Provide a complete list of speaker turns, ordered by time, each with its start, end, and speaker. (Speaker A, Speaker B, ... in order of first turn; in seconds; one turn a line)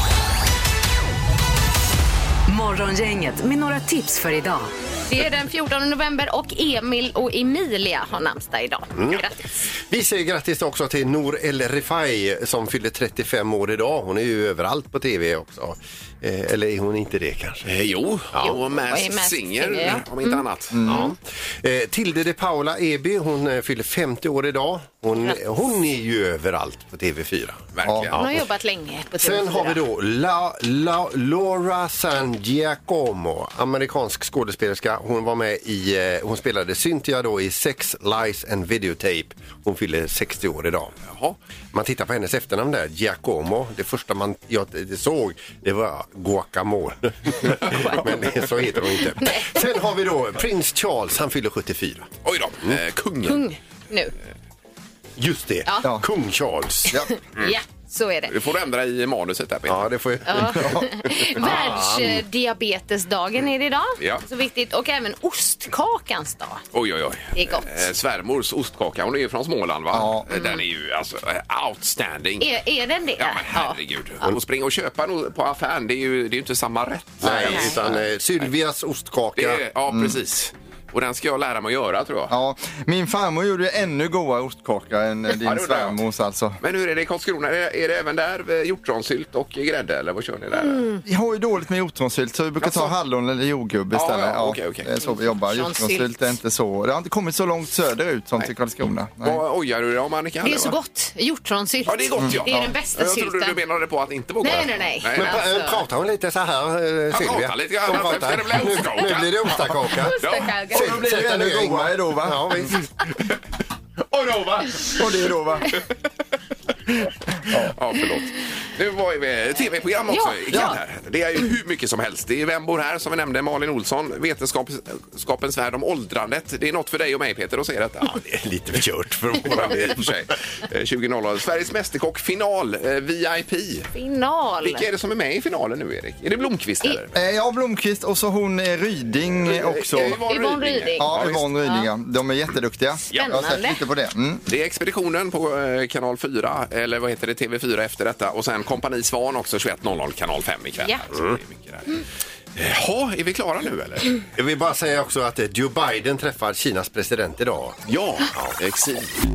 Speaker A: 2.5-4.7
Speaker B: 5.1-9.7
Speaker C: 9.0-9.2
Speaker C: 9.8-17.7
Speaker D: 17.6-20.9
Speaker B: 18.4-20.4
Speaker E: 20.7-21.1
Speaker C: 20.9-28.5
Speaker D: 27.7-28.1
Speaker E: 27.9-28.1
Speaker B: 28.1-29.8
Speaker C: 29.2-41.0
Speaker D: 41.1-41.4
Speaker C: 41.7-52.1
Speaker D: 47.6-48.1
Speaker B: 49.2-49.6
Speaker D: 52.2-53.4
Speaker B: 53.2-54.1
Speaker C: 55.2-57.0
Speaker B: 57.0-58.4
Speaker D: 58.3-59.9
Speaker C: 59.7-60.9
Speaker B: 60.3-66.6
Speaker C: 61.4-62.2
Speaker D: 66.7-72.5
Speaker B: 67.3-67.8
Speaker E: 69.9-70.3
Speaker B: 70.3-70.6
Speaker B: 72.4-73.8
Speaker D: 73.2-78.5
Speaker C: 77.2-79.6
Speaker B: 77.5-77.8
Speaker D: 79.3-82.3
Speaker E: 79.9-80.2
Speaker E: 82.3-86.6
Speaker D: 85.4-86.0
Speaker D: 86.6-90.8
Speaker B: 90.5-91.0
Speaker E: 91.0-99.4
Speaker D: 92.6-92.9
Speaker D: 93.9-94.9
Speaker B: 95.0-96.1
Speaker D: 99.2-100.8
Speaker B: 100.4-103.6
Speaker D: 101.9-105.4
Speaker E: 102.2-102.5
Speaker B: 104.4-105.8
Speaker C: 105.1-110.2
Speaker D: 107.1-110.6
Speaker B: 110.0-111.0
Speaker E: 110.7-112.7
Speaker C: 110.7-112.8
Speaker D: 114.1-115.0
Speaker E: 114.9-115.7
Speaker E: 117.5-117.7
Speaker D: 117.5-128.2
Speaker B: 120.1-120.7
Speaker E: 120.5-120.8
Speaker C: 128.1-130.1
Speaker D: 129.4-133.9
Speaker B: 133.9-134.8
Speaker D: 134.6-137.2
Speaker E: 137.1-140.2
Speaker D: 139.4-141.4
Speaker B: 140.2-141.9
Speaker E: 141.0-144.4
Speaker B: 143.1-143.8
Speaker D: 144.5-152.0
Speaker D: 152.6-154.2
Speaker C: 154.4-157.8
Speaker D: 157.9-159.1